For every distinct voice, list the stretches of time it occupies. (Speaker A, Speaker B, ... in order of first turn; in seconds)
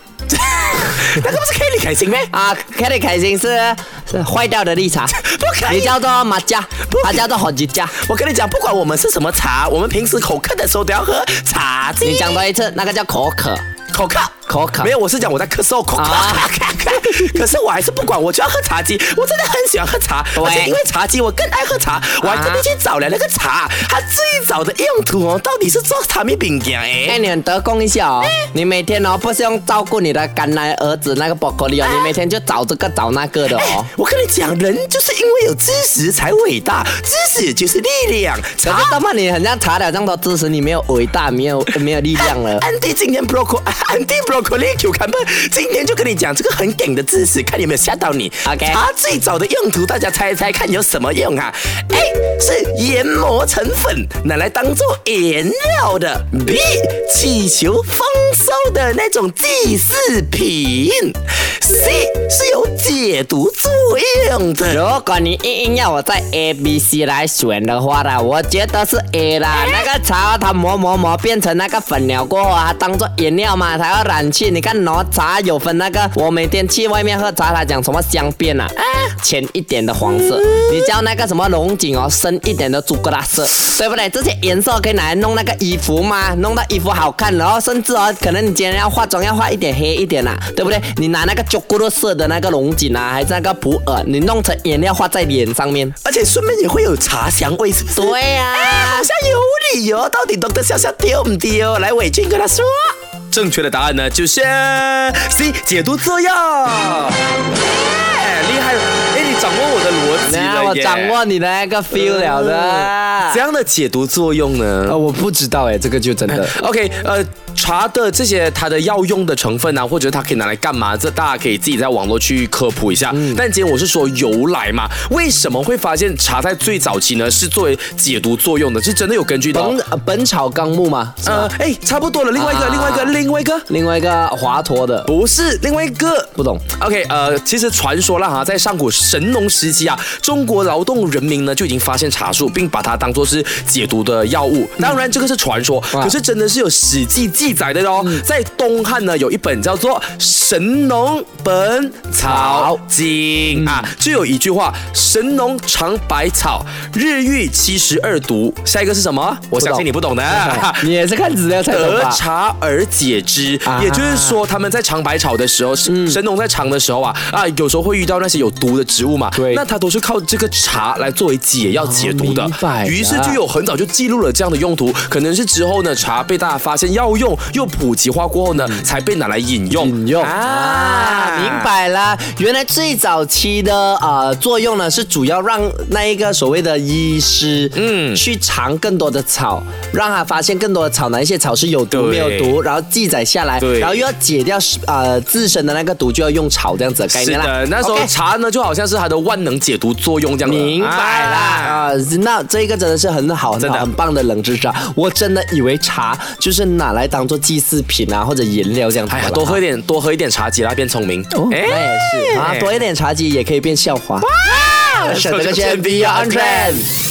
Speaker A: 0.3-2.3, 5.1-6.0, 6.9-7.3, 7.9-12.4, 13.9-27.2, 31.8-32.1, 33.5-39.0, 42.2-64.8, 69.5-69.9, 96.0-111.2, 111.9-115.0, 116.3-129.8, 131.2-133.7, 135.1-160.9, 161.7-181.7, 187.8-188.2, 191.9-192.6, 193.6-194.0, 197.1-201.9, 203.6-203.9, 209.1-212.8, 214.2-216.9
Speaker B: 2.3-8.0, 12.0-13.6, 14.5-14.9, 16.0-16.5, 20.4-20.7, 22.2-22.6, 27.1-33.9, 38.6-42.6, 48.5-48.8, 64.7-96.0, 98.0-99.1, 110.2-113.4, 114.9-116.6, 123.1-123.4, 129.5-131.5, 132.3-133.2, 133.7-135.1, 136.3-136.7, 152.2-152.8, 153.6-153.9, 159.5-162.2, 163.7-164.4, 165.9-166.2, 169.3-169.6, 171.8-173.4, 178.6-178.8, 179.7-198.1, 200.4-209.6, 211.3-216.9